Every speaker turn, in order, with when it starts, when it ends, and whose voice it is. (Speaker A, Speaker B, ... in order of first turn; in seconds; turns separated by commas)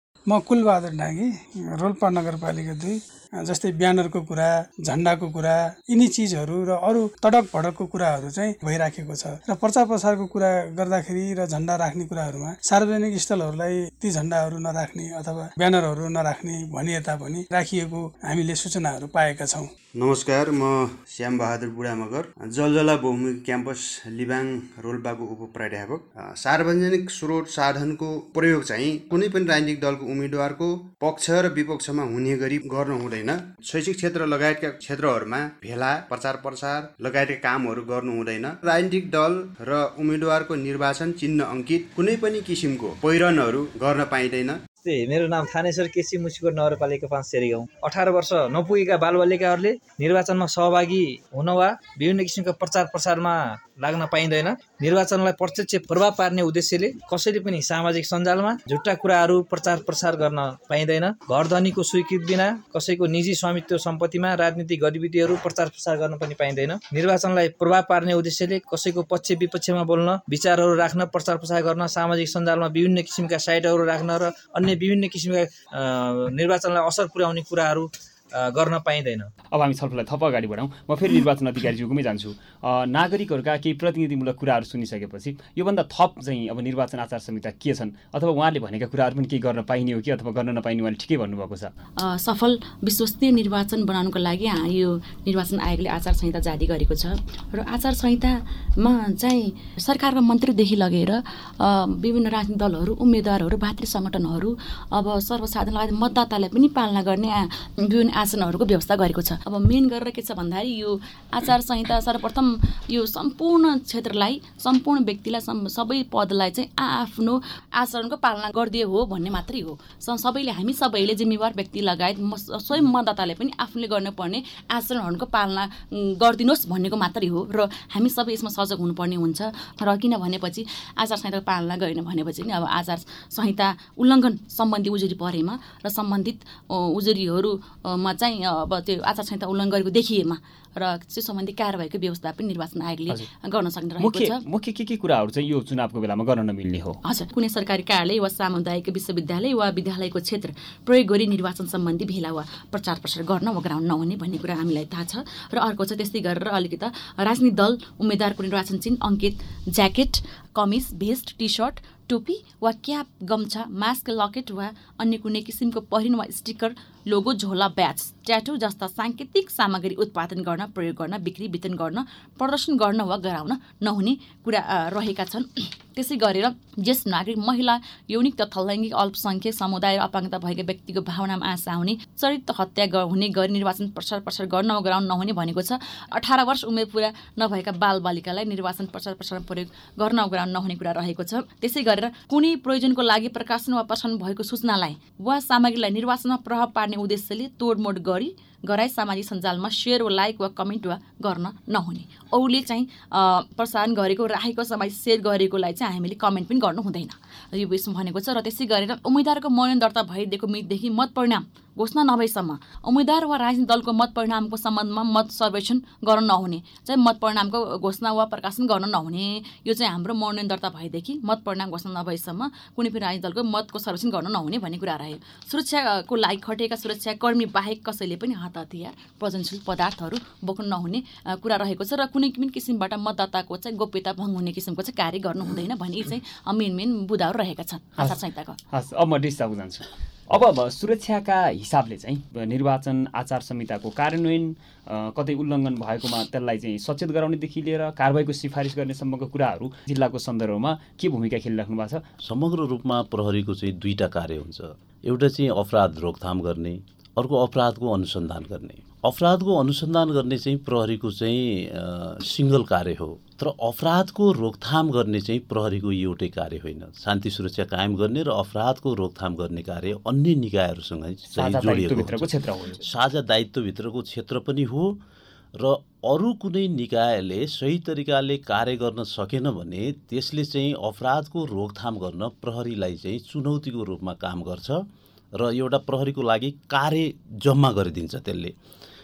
Speaker A: 0.3-19.7, Speaker B: 19.9-44.6, Speaker C: 44.8-79.3, Speaker D: 79.5-91.7, Speaker E: 92.0-144.4, Speaker D: 144.0-147.0, Speaker E: 147.0-238.6, Speaker D: 238.7-252.0, Speaker F: 252.2-272.3, Speaker D: 271.3-272.8, Speaker F: 272.8-275.0, Speaker F: 275.5-288.5